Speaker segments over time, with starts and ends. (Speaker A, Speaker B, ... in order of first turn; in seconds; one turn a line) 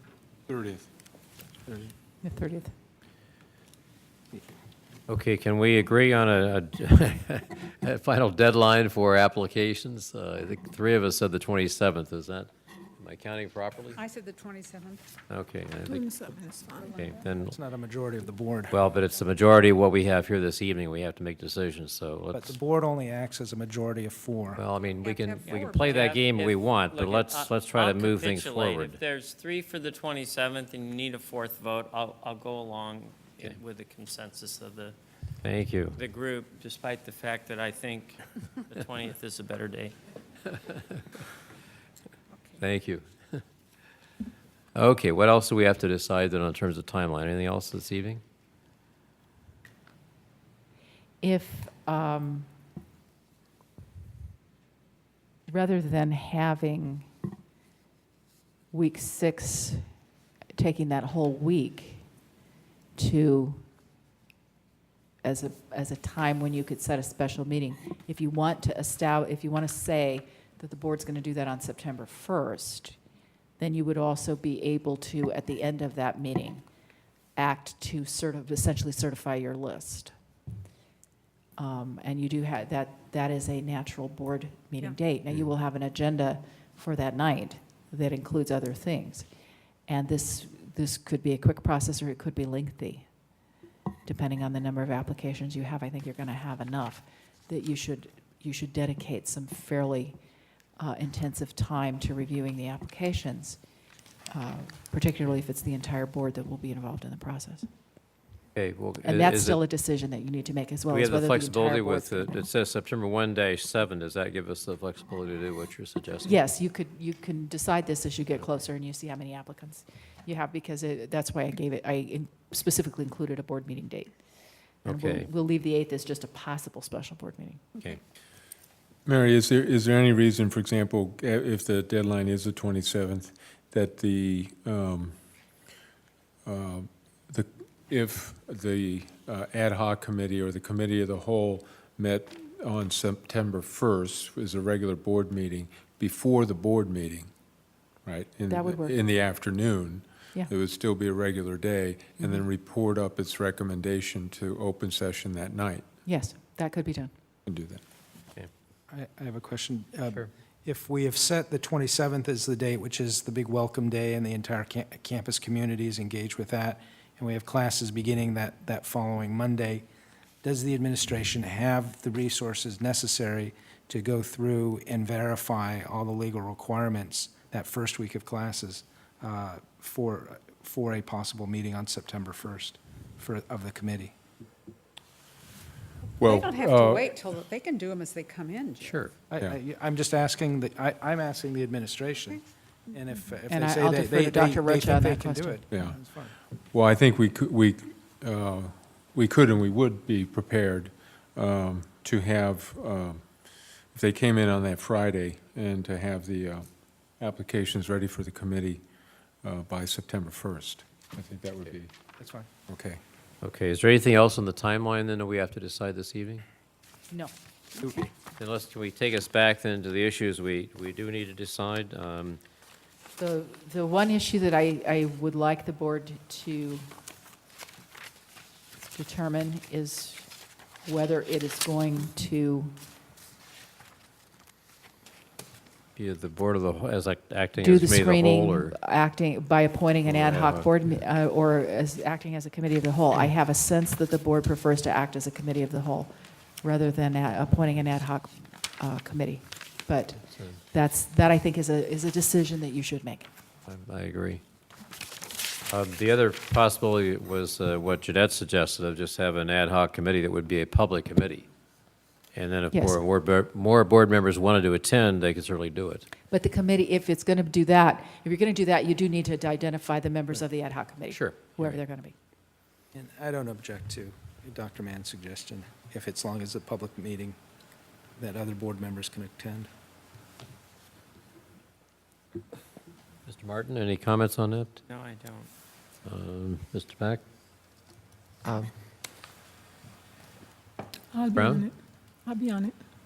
Speaker A: 0.5-0.8
Speaker B: 2.2-2.7
Speaker C: 5.1-14.0
Speaker D: 13.9-15.0
Speaker C: 15.3-16.2
Speaker E: 15.8-16.9
Speaker D: 16.8-17.2
Speaker C: 16.9-17.5
Speaker F: 17.4-18.8
Speaker C: 18.7-22.6
Speaker F: 22.3-24.6
Speaker C: 24.6-29.0
Speaker D: 25.0-26.1
Speaker G: 25.4-35.0
Speaker C: 35.4-36.0
Speaker G: 36.0-40.0
Speaker C: 42.6-43.4
Speaker C: 44.7-48.2
Speaker B: 51.2-52.5
Speaker B: 55.5-57.1
Speaker B: 58.7-59.9
Speaker B: 60.5-62.0
Speaker B: 63.0-63.6
Speaker B: 65.2-73.0
Speaker B: 73.6-76.6
Speaker B: 77.3-80.1
Speaker B: 81.6-89.2
Speaker B: 89.9-93.0
Speaker B: 94.0-100.2
Speaker B: 100.8-103.6
Speaker B: 104.3-107.7
Speaker C: 108.5-109.6
Speaker B: 109.0-112.4
Speaker C: 110.9-116.4
Speaker B: 116.2-124.1
Speaker B: 124.8-127.6
Speaker C: 124.8-125.3
Speaker A: 129.1-135.2
Speaker A: 136.4-147.3
Speaker A: 148.0-155.9
Speaker B: 148.5-148.9
Speaker B: 156.0-157.1
Speaker A: 157.4-157.8
Speaker F: 158.9-169.8
Speaker F: 170.4-184.1
Speaker A: 186.2-187.1
Speaker D: 186.2-189.0
Speaker C: 188.8-189.1
Speaker F: 189.3-196.3
Speaker B: 193.5-195.6
Speaker A: 195.7-196.0
Speaker A: 196.7-203.2
Speaker A: 203.9-206.7
Speaker A: 207.2-208.8
Speaker A: 209.4-211.9
Speaker F: 212.2-212.5
Speaker A: 212.7-213.0
Speaker C: 213.4-216.4
Speaker B: 217.1-218.1
Speaker C: 218.4-222.4
Speaker B: 223.2-226.9
Speaker B: 228.8-230.3
Speaker B: 230.8-232.7
Speaker C: 235.9-238.8
Speaker B: 237.6-253.3
Speaker C: 240.0-240.7
Speaker C: 250.3-250.6
Speaker C: 253.7-254.4
Speaker C: 255.7-261.5
Speaker C: 262.3-266.1
Speaker B: 262.7-263.0
Speaker B: 266.3-272.1
Speaker C: 271.1-271.8
Speaker F: 272.9-277.4
Speaker F: 278.2-279.7
Speaker C: 283.3-284.8
Speaker G: 284.9-285.5
Speaker C: 286.1-287.2
Speaker E: 291.1-291.7
Speaker C: 291.3-291.7
Speaker E: 292.2-292.8